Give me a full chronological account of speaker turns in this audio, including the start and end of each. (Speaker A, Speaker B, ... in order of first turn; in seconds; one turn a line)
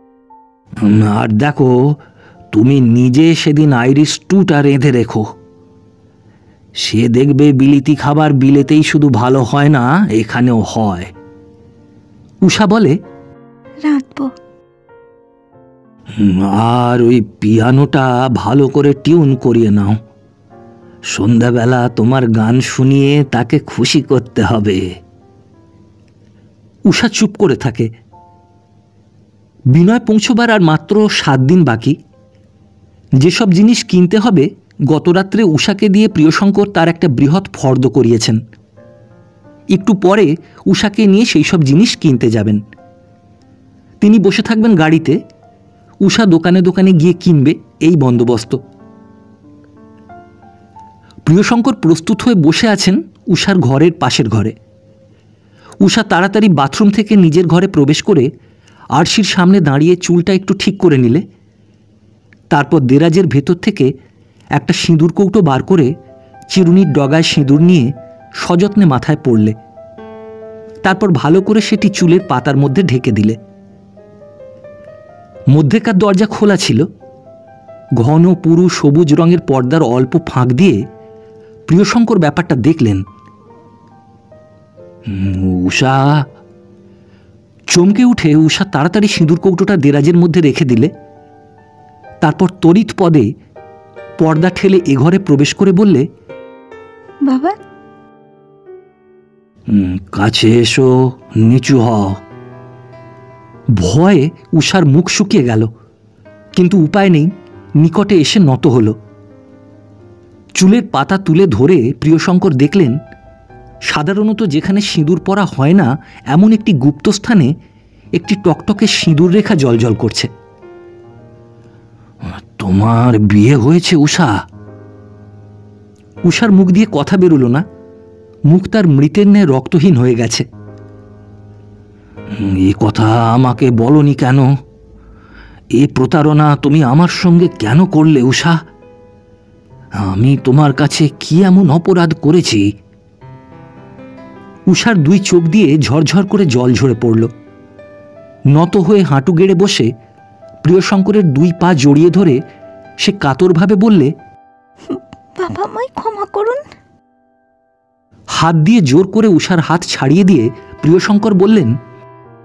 Speaker A: 0.8-1.7
Speaker A: 2.5-5.3
Speaker A: 6.8-11.1
Speaker A: 12.4-12.9
Speaker B: 13.8-14.3
Speaker A: 16.2-20.0
Speaker A: 21.1-24.8
Speaker A: 26.9-27.9
Speaker A: 29.7-31.9
Speaker A: 33.2-38.4
Speaker A: 39.7-42.6
Speaker A: 44.0-45.2
Speaker A: 46.0-48.6
Speaker A: 51.2-54.5
Speaker A: 55.8-58.3
Speaker A: 59.0-61.2
Speaker A: 62.5-63.9
Speaker A: 64.6-65.9
Speaker A: 66.5-69.5
Speaker A: 70.8-73.4
Speaker A: 75.5-76.8
Speaker A: 78.0-80.8
Speaker A: 81.7-83.0
Speaker A: 85.1-86.2
Speaker A: 87.7-90.9
Speaker A: 92.2-93.3
Speaker A: 94.2-96.0
Speaker B: 97.2-97.5
Speaker A: 99.7-102.2
Speaker A: 103.8-105.7
Speaker A: 106.5-109.0
Speaker A: 110.6-113.0
Speaker A: 113.9-117.5
Speaker A: 118.2-120.3
Speaker A: 122.4-124.3
Speaker A: 126.2-127.6
Speaker A: 128.5-130.4
Speaker A: 132.3-134.5
Speaker A: 135.8-138.6
Speaker A: 140.0-142.7
Speaker A: 144.7-147.3
Speaker A: 148.5-149.9
Speaker A: 150.6-152.4
Speaker A: 153.0-154.1
Speaker B: 154.9-156.6
Speaker A: 158.3-161.7